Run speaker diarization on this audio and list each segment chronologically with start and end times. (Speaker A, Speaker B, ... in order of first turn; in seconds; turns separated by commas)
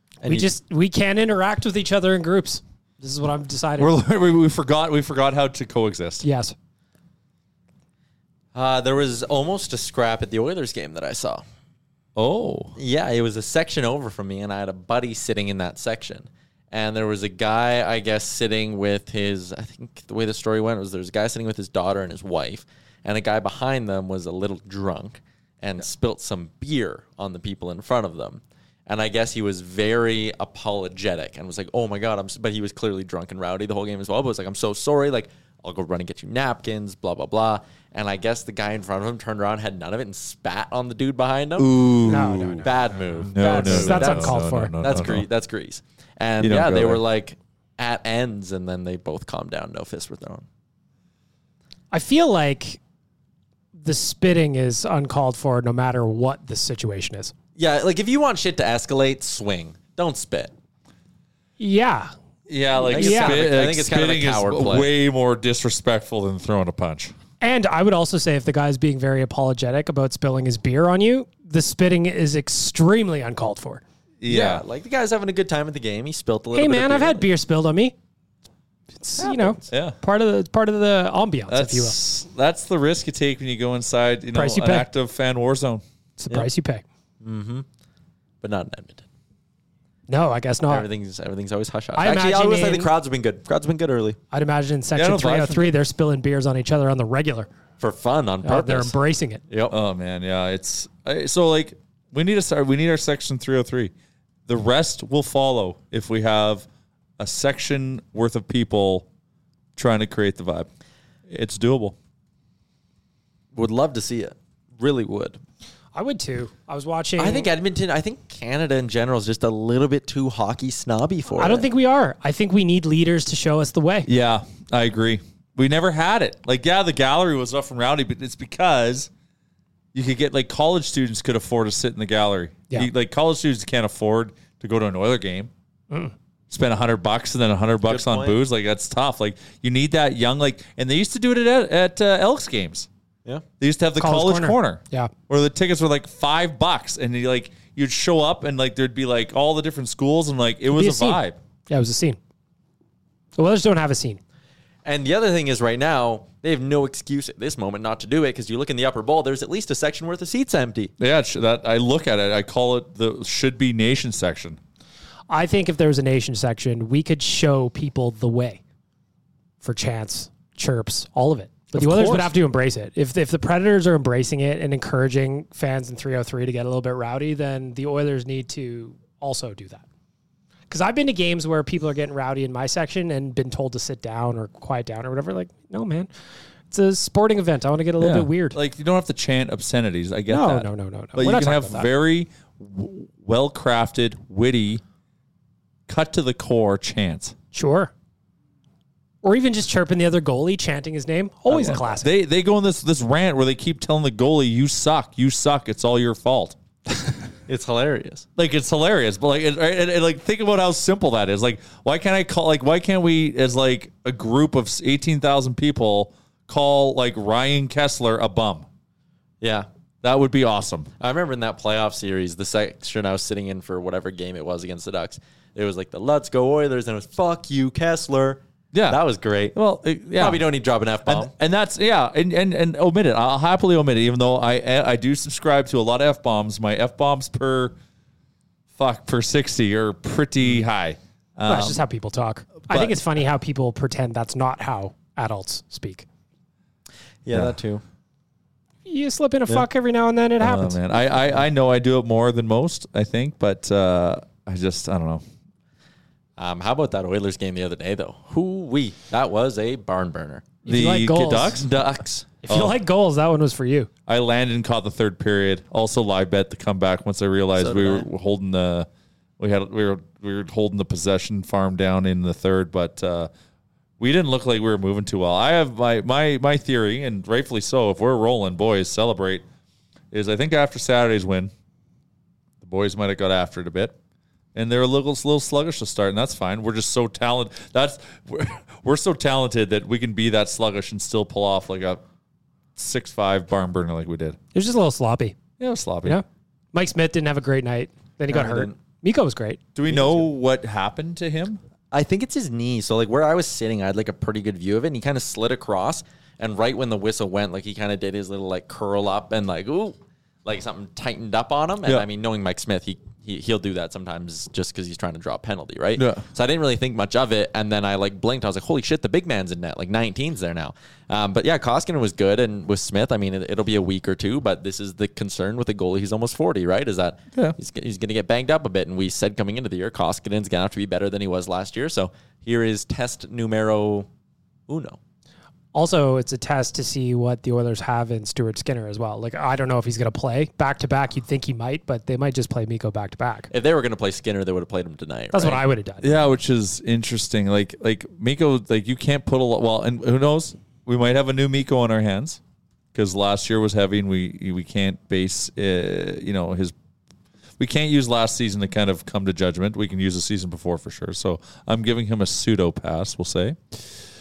Speaker A: 0.2-3.9, Speaker B: 3.8-6.2, Speaker A: 6.2-6.5, Speaker C: 8.5-11.4, Speaker B: 12.2-12.8, Speaker C: 12.8-41.7, Speaker B: 41.6-42.6, Speaker A: 42.1-42.7, Speaker C: 42.6-50.5, Speaker B: 43.3-45.3, Speaker A: 43.3-44.7, Speaker B: 46.4-47.0, Speaker A: 51.9-52.8, Speaker A: 53.8-57.3, Speaker C: 57.6-60.5, Speaker A: 61.6-62.1, Speaker B: 62.5-67.1, Speaker A: 62.9-63.4, Speaker C: 62.9-64.9, Speaker A: 67.4-73.8, Speaker B: 74.2-74.6, Speaker C: 74.3-77.3, Speaker A: 76.5-77.9, Speaker A: 78.9-82.0, Speaker B: 79.2-80.0, Speaker B: 81.5-85.8, Speaker A: 84.3-84.9, Speaker A: 86.2-86.8, Speaker C: 87.2-87.6, Speaker C: 88.4-89.1, Speaker A: 90.1-90.9, Speaker C: 90.7-94.2, Speaker A: 92.0-92.9, Speaker A: 94.3-97.5, Speaker B: 95.0-95.7, Speaker C: 97.8-99.0, Speaker A: 98.4-99.4, Speaker C: 99.5-99.8, Speaker B: 99.7-103.9, Speaker B: 104.5-106.7, Speaker B: 107.2-109.1, Speaker B: 109.8-110.7, Speaker B: 111.3-112.0, Speaker C: 113.5-115.4, Speaker A: 116.0-117.5, Speaker C: 117.2-121.7, Speaker A: 121.4-124.1, Speaker B: 124.1-129.1, Speaker B: 129.9-135.5, Speaker B: 136.5-142.9, Speaker C: 137.8-138.4, Speaker B: 143.6-151.4, Speaker A: 144.0-145.1, Speaker A: 150.7-152.2, Speaker A: 153.4-154.2, Speaker C: 154.8-160.9, Speaker B: 161.0-164.6, Speaker A: 165.3-168.6, Speaker A: 169.6-179.8, Speaker B: 171.7-172.3, Speaker A: 180.7-186.1, Speaker A: 186.7-188.6, Speaker B: 188.0-194.8, Speaker A: 190.3-191.9, Speaker B: 195.9-197.3, Speaker A: 197.5-197.9, Speaker A: 199.2-202.1, Speaker B: 201.5-206.6, Speaker C: 207.5-208.2, Speaker B: 208.4-218.7, Speaker C: 219.4-219.7, Speaker B: 220.0-220.9, Speaker C: 221.0-229.6, Speaker B: 228.7-229.0, Speaker B: 229.5-230.5, Speaker C: 230.1-231.3, Speaker B: 231.1-237.8, Speaker B: 238.8-241.8, Speaker A: 241.5-246.1, Speaker B: 242.7-243.0, Speaker C: 247.2-247.8, Speaker A: 248.9-250.8, Speaker B: 250.4-255.2, Speaker C: 256.4-260.5, Speaker A: 260.6-261.7, Speaker B: 260.7-262.8, Speaker A: 262.4-263.9, Speaker B: 264.1-268.9, Speaker C: 267.6-268.1, Speaker B: 269.4-273.3, Speaker B: 274.0-279.4, Speaker B: 280.1-281.5, Speaker B: 282.6-284.0, Speaker B: 284.6-292.0, Speaker B: 292.8-294.4, Speaker A: 294.5-295.4, Speaker B: 295.6-296.2, Speaker A: 296.0-299.6, Speaker C: 298.3-298.8, Speaker B: 299.8-301.6, Speaker C: 299.9-300.3, Speaker C: 301.9-334.1, Speaker B: 316.0-316.2, Speaker C: 334.7-335.0, Speaker A: 335.7-343.5, Speaker C: 343.5-345.6, Speaker A: 345.3-346.2, Speaker B: 346.0-352.4, Speaker B: 352.9-356.7, Speaker B: 357.6-363.9